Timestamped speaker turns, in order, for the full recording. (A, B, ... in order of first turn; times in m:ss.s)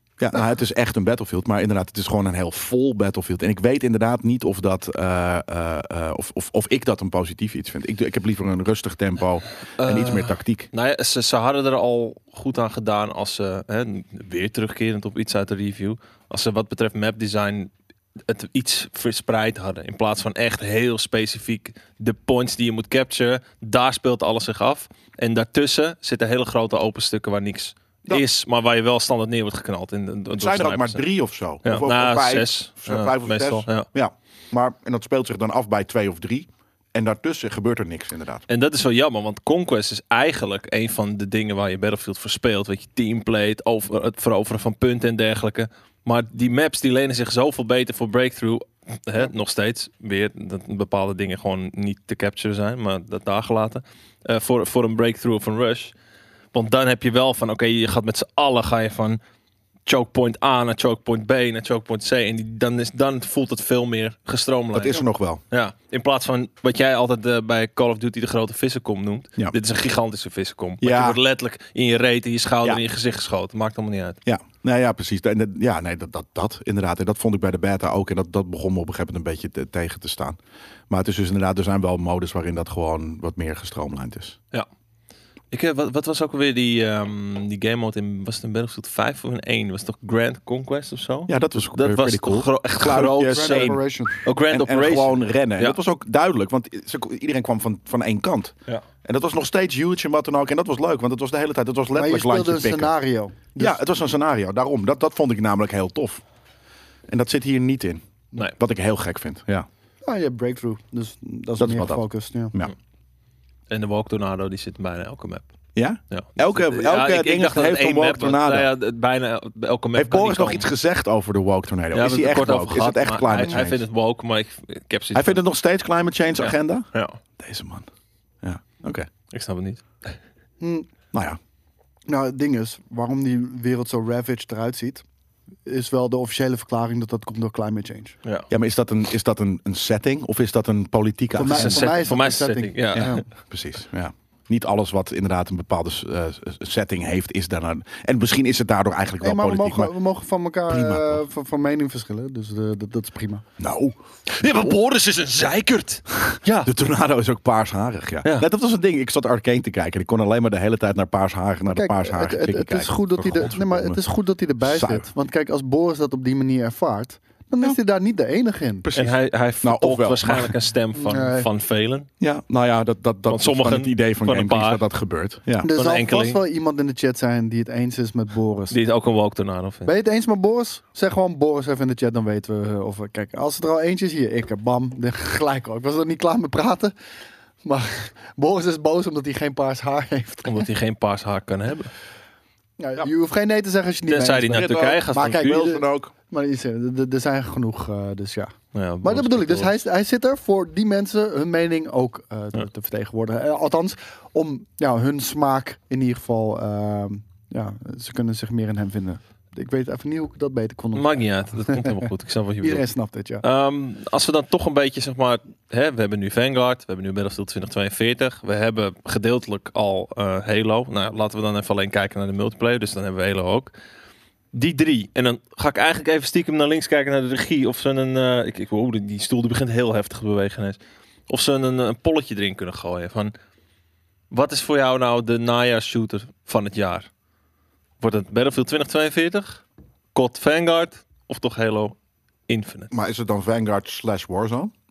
0:00.2-0:10.7 A
0:09.8-0:17.7 B
0:18.3-0:31.0 B
0:30.4-0:38.4 A
0:31.6-0:33.9 B
0:38.5-0:55.9 B
0:56.5-0:59.2 B
0:59.8-1:14.2 B
1:04.7-1:05.4 A
1:10.8-1:11.2 A
1:14.2-1:20.4 A
1:20.9-1:24.4 A
1:25.5-1:35.8 B
1:31.3-1:33.8 A
1:33.3-1:34.2 C
1:34.4-1:42.9 A
1:41.9-1:43.8 C
1:43.6-1:46.2 A
1:47.1-1:48.0 A
1:48.6-1:49.7 A
1:50.0-1:52.5 C
1:51.6-1:52.0 A
1:53.7-1:55.5 B
1:55.8-1:58.7 A
1:56.1-2:00.7 B
1:59.9-2:03.8 A
2:01.9-2:05.4 B
2:05.1-2:06.9 A
2:06.4-2:07.2 B
2:07.4-2:07.9 A
2:08.4-2:09.1 A
2:09.3-2:10.2 B
2:10.6-2:10.9 C
2:11.1-2:11.4 A
2:12.1-2:15.0 C
2:15.6-2:18.2 C
2:18.5-2:21.9 A
2:21.4-2:23.2 C
2:21.5-2:23.2 B
2:22.9-2:29.9 A
2:29.2-2:33.4 C
2:30.7-2:31.2 A
2:33.6-2:34.8 A
2:34.3-2:36.7 B
2:36.1-2:44.0 A
2:41.7-2:48.9 C
2:44.6-2:45.1 A
2:48.8-2:50.5 A
2:48.9-2:52.1 B
2:50.9-2:51.5 C
2:52.2-2:55.7 A
2:53.3-2:54.8 B
2:55.6-2:58.8 C
2:55.7-2:56.4 B
2:58.7-2:59.9 B
2:59.8-3:06.9 C
3:07.6-3:10.7 C
3:10.4-3:11.9 B
3:12.8-3:32.1 C
3:14.1-3:15.7 B
3:14.5-3:16.1 A
3:18.7-3:19.7 B
3:30.9-3:32.8 B
3:32.6-3:33.4 C
3:33.4-3:43.7 B
3:44.5-3:53.3 B
3:54.3-3:57.1 B
3:58.0-3:59.6 B
4:00.1-4:02.0 B
4:02.5-4:02.9 B
4:02.9-4:04.7 A